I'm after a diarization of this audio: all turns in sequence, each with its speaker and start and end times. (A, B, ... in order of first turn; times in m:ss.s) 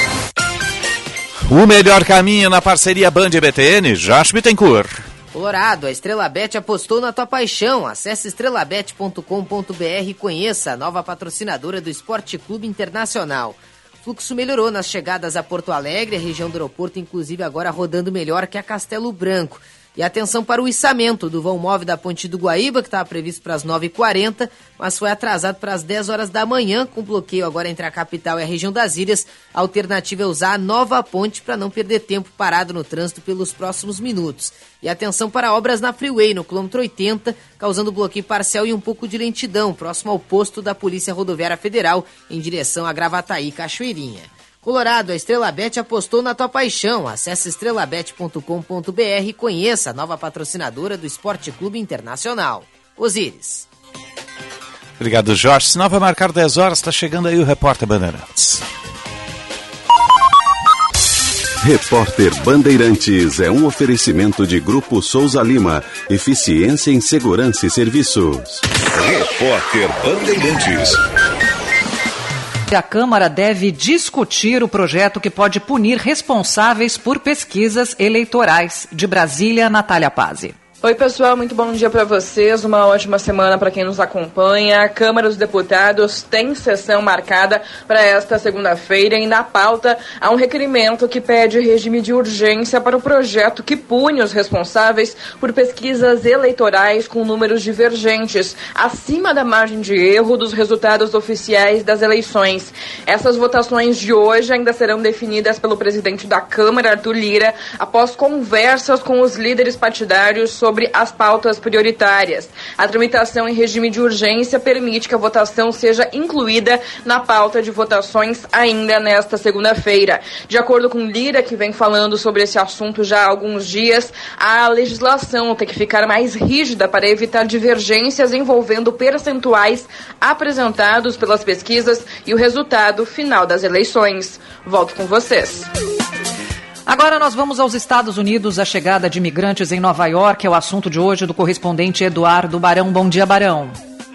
0:01.5-0:04.9 A
0:05.3-0:53.7 B
0:55.0-0:58.6 A
1:01.6-1:08.6 C
1:12.7-1:20.5 D
1:20.8-2:15.7 E
2:16.9-2:23.7 D